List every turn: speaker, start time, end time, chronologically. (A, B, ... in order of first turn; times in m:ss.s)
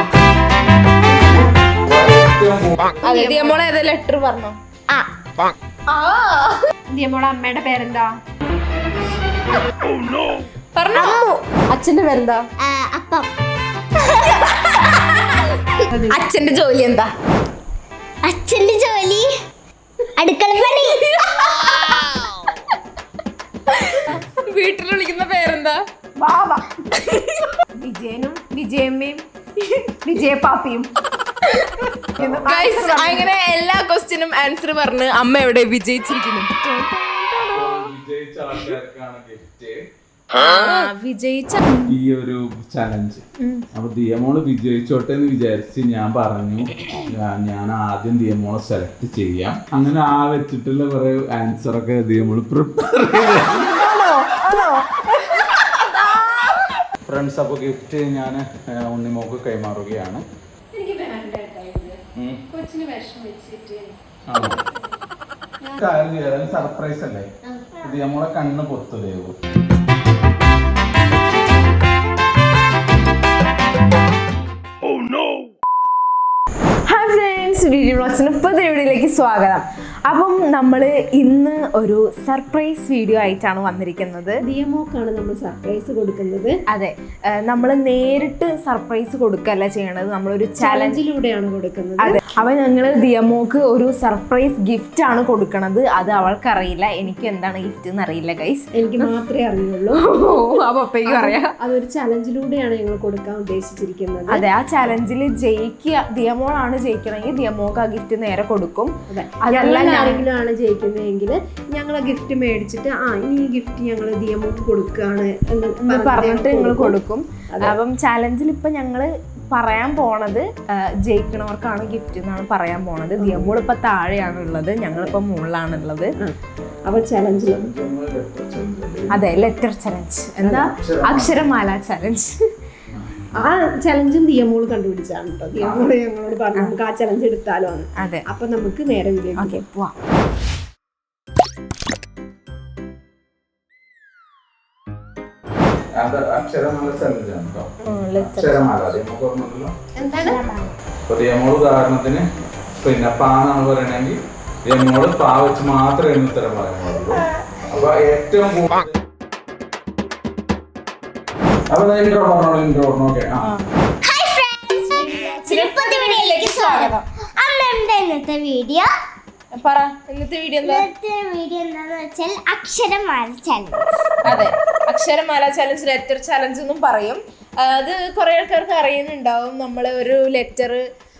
0:01.2-0:01.5 A
0:01.8-0:02.9 B
0:03.0-0:03.6 A
0:03.0-0:04.6 C
0:05.9-0:06.6 C
0:06.9-0:08.1 A
0:10.7-0:11.2 C
0:10.9-0:11.4 D
0:11.7-0:12.4 A
0:12.6-0:13.3 D
0:14.0-0:15.5 C
0:15.9-0:16.2 A
0:16.1-0:17.1 C
0:18.2-0:19.3 D
0:20.2-0:21.0 D
0:20.6-0:22.4 C
0:23.7-0:25.8 C
0:26.2-0:26.7 A
0:26.9-0:27.5 C
0:27.7-0:29.2 A
0:30.0-0:30.9 A
0:31.5-0:31.7 C
0:32.2-0:33.3 A
0:32.2-0:32.5 B
0:32.4-0:37.9 C
0:37.5-0:39.8 B
0:40.3-0:42.0 C
0:41.9-0:53.8 B
0:53.6-0:56.5 A
0:57.1-1:00.2 B
1:00.7-1:02.0 A
1:02.2-1:02.4 B
1:02.5-1:04.0 A
1:04.3-1:04.6 B
1:05.8-1:07.2 B
1:07.5-1:07.7 A
1:07.8-1:09.4 B
1:16.9-1:24.4 C
1:24.4-1:26.6 A
1:26.7-1:31.0 C
1:30.6-1:32.4 A
1:32.0-1:39.2 C
1:38.7-1:40.0 A
1:40.0-1:41.5 C
1:41.0-1:44.4 A
1:44.3-1:48.9 C
1:49.1-1:57.0 A
1:49.4-1:50.2 C
1:55.8-2:06.1 C
2:03.2-2:03.6 A
2:06.2-2:07.6 A
2:07.3-2:09.3 B
2:09.1-2:12.4 C
2:10.4-2:11.4 B
2:12.9-2:13.5 B
2:13.4-2:19.6 A
2:15.6-2:15.9 B
2:18.0-2:18.2 C
2:19.4-2:19.9 C
2:26.0-2:29.7 B
2:27.8-2:29.0 C
2:30.0-2:30.4 A
2:30.0-2:30.7 D
2:31.1-2:32.2 B
2:32.8-2:38.9 B
2:41.7-2:43.5 B
2:44.0-2:48.9 D
2:45.4-2:47.0 C
2:49.5-2:50.9 C
2:50.6-2:53.9 D
2:54.2-3:00.8 C
2:54.2-2:54.5 B